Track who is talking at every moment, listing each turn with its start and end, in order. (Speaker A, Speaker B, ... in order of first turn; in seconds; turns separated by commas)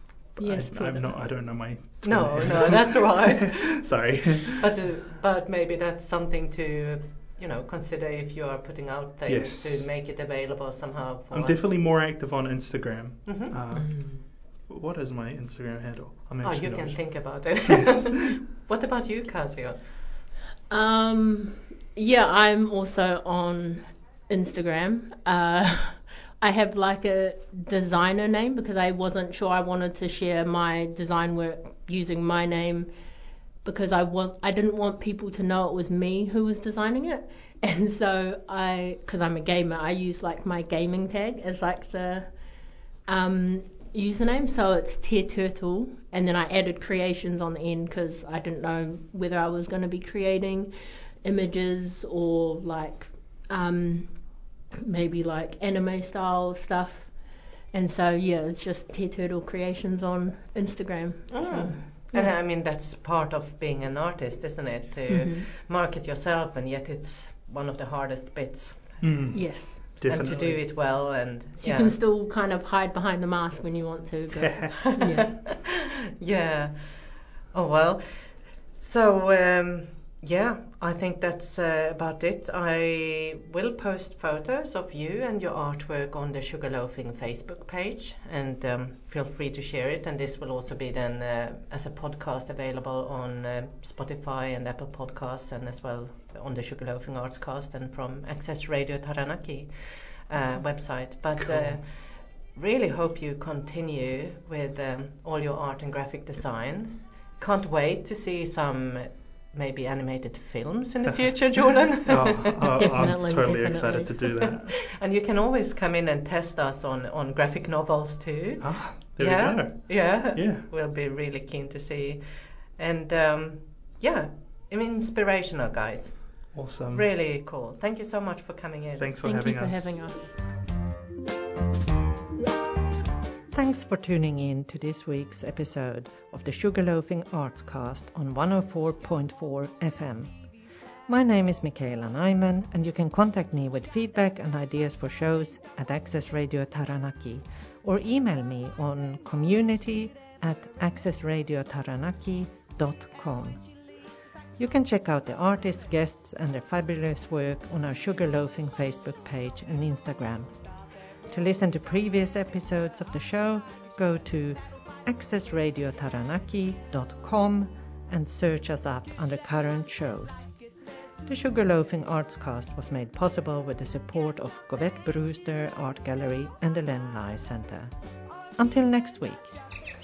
Speaker A: 0.3-4.7, Speaker B: 0.4-1.1, Speaker C: 2.0-3.7, Speaker C: 4.6-11.6, Speaker A: 9.3-9.9, Speaker A: 11.3-14.1, Speaker C: 13.2-13.6, Speaker B: 13.8-14.1, Speaker A: 14.7-18.2, Speaker C: 16.4-19.8, Speaker B: 20.7-32.9, Speaker B: 33.6-42.3, Speaker B: 43.1-50.7, Speaker B: 51.2-54.1, Speaker B: 54.8-57.1, Speaker B: 57.7-62.3, Speaker C: 61.3-69.0, Speaker B: 65.1-65.4, Speaker A: 69.0-70.5, Speaker B: 69.3-70.5, Speaker C: 70.0-71.9, Speaker B: 71.6-75.3, Speaker A: 74.3-74.7, Speaker C: 74.9-76.7, Speaker C: 77.5-78.0, Speaker C: 78.7-99.7, Speaker C: 100.3-101.9, Speaker A: 101.4-101.8, Speaker C: 102.5-112.9, Speaker A: 112.0-114.8, Speaker B: 112.7-114.1, Speaker C: 114.2-122.2, Speaker A: 118.6-120.7, Speaker C: 122.8-129.1, Speaker A: 126.5-127.0, Speaker A: 129.0-130.0, Speaker B: 129.2-130.3, Speaker C: 133.5-140.3, Speaker C: 141.1-153.6, Speaker C: 154.6-160.6, Speaker C: 161.3-170.5, Speaker C: 171.2-177.9, Speaker C: 178.6-179.5